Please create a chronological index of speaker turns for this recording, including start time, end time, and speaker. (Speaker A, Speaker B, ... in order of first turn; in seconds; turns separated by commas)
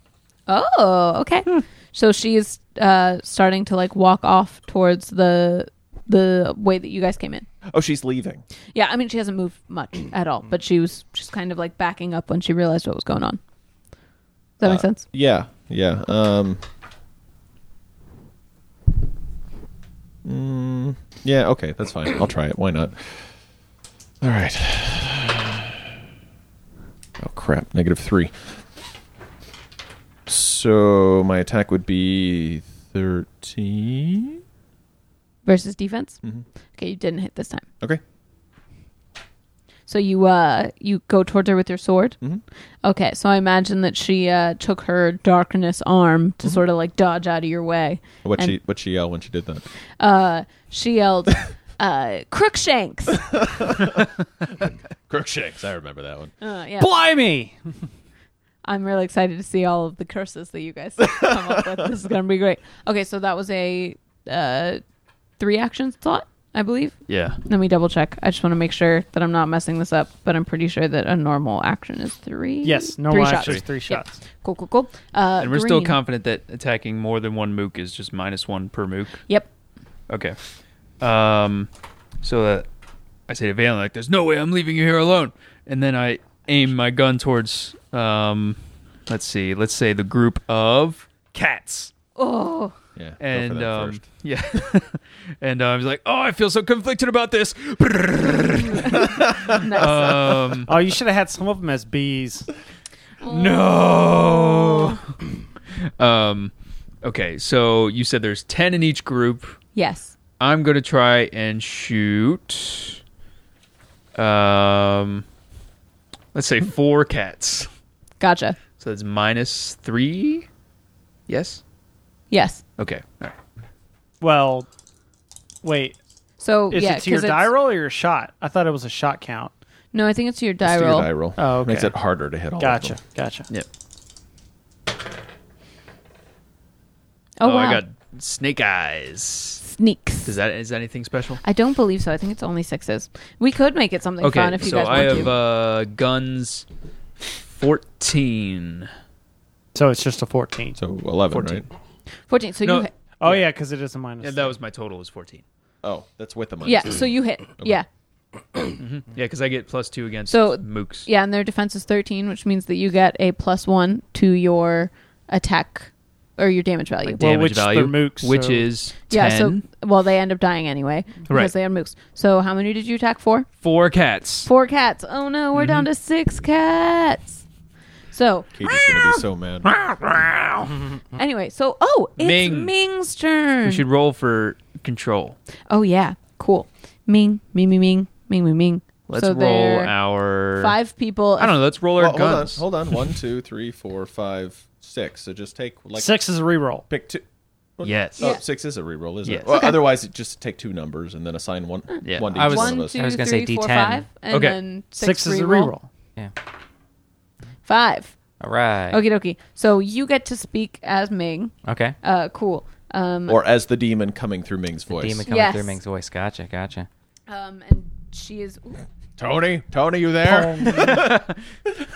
Speaker A: 0.5-7.5, Speaker B: 7.7-8.4, Speaker A: 8.7-13.4, Speaker A: 14.6-15.0, Speaker B: 14.6-16.6, Speaker B: 20.2-23.2, Speaker B: 24.2-25.7, Speaker B: 27.2-28.3, Speaker B: 30.2-34.4, Speaker A: 35.4-36.2, Speaker A: 36.8-37.6, Speaker A: 39.9-42.2, Speaker A: 42.8-48.5, Speaker B: 48.2-49.6, Speaker A: 50.0-53.3, Speaker B: 53.3-54.1, Speaker B: 54.6-56.3, Speaker A: 56.4-56.9, Speaker C: 56.8-57.6, Speaker A: 58.6-64.8, Speaker B: 61.0-61.3, Speaker A: 65.4-76.0, Speaker D: 67.1-67.4, Speaker C: 72.6-74.2, Speaker D: 73.3-73.6, Speaker D: 75.4-79.2, Speaker D: 80.1-80.3, Speaker D: 81.0-81.7, Speaker D: 82.2-82.7, Speaker D: 83.3-91.9, Speaker A: 92.2-92.7, Speaker B: 93.0-94.0, Speaker D: 93.2-100.7, Speaker A: 98.7-100.4, Speaker C: 100.7-102.5, Speaker A: 103.2-105.0, Speaker D: 103.3-105.0, Speaker D: 105.8-109.6, Speaker A: 109.7-110.1, Speaker D: 110.4-113.0, Speaker D: 114.1-115.2, Speaker D: 116.3-117.7, Speaker A: 118.2-118.6, Speaker D: 118.8-120.5, Speaker D: 121.3-121.6, Speaker A: 122.3-122.6, Speaker D: 122.8-123.3, Speaker C: 124.2-124.7, Speaker C: 125.6-126.0, Speaker A: 126.4-127.5, Speaker C: 126.7-129.5, Speaker A: 129.9-131.1, Speaker B: 130.6-133.0, Speaker C: 131.3-131.9, Speaker C: 132.6-133.5, Speaker A: 137.4-137.8, Speaker D: 137.4-139.6, Speaker A: 139.6-140.3, Speaker D: 140.2-141.4, Speaker A: 141.4-145.3, Speaker D: 144.2-146.6, Speaker D: 147.3-148.9, Speaker C: 149.7-150.8, Speaker B: 150.8-151.6, Speaker D: 151.3-151.7, Speaker A: 152.3-152.9, Speaker D: 152.6-153.5, Speaker C: 153.2-154.5, Speaker D: 154.2-155.4, Speaker B: 155.8-157.1, Speaker A: 156.6-157.8, Speaker D: 158.8-161.1, Speaker A: 160.3-167.2, Speaker C: 167.1-168.7, Speaker D: 167.2-169.6, Speaker A: 169.1-173.5, Speaker D: 173.6-174.5, Speaker A: 174.4-177.4, Speaker D: 175.5-175.9, Speaker A: 178.1-179.2, Speaker B: 178.5-179.7, Speaker D: 179.8-180.7, Speaker A: 181.1-183.8, Speaker D: 182.2-182.7, Speaker D: 183.6-185.3, Speaker A: 185.7-189.9, Speaker D: 189.1-190.8, Speaker A: 190.6-191.5, Speaker D: 191.4-193.1, Speaker B: 191.9-196.2, Speaker C: 195.9-196.8, Speaker B: 196.9-197.2, Speaker B: 197.8-203.0, Speaker D: 197.8-198.3, Speaker D: 199.2-199.6, Speaker D: 202.0-202.3, Speaker E: 202.3-204.1, Speaker A: 202.3-205.7, Speaker D: 204.3-204.6, Speaker C: 205.0-205.9, Speaker A: 207.6-208.1, Speaker E: 208.4-209.0, Speaker A: 208.9-213.4, Speaker E: 211.6-211.9, Speaker B: 213.3-215.2, Speaker E: 214.9-216.9, Speaker A: 215.3-215.8, Speaker A: 217.3-218.8, Speaker B: 219.2-221.7, Speaker C: 220.2-221.2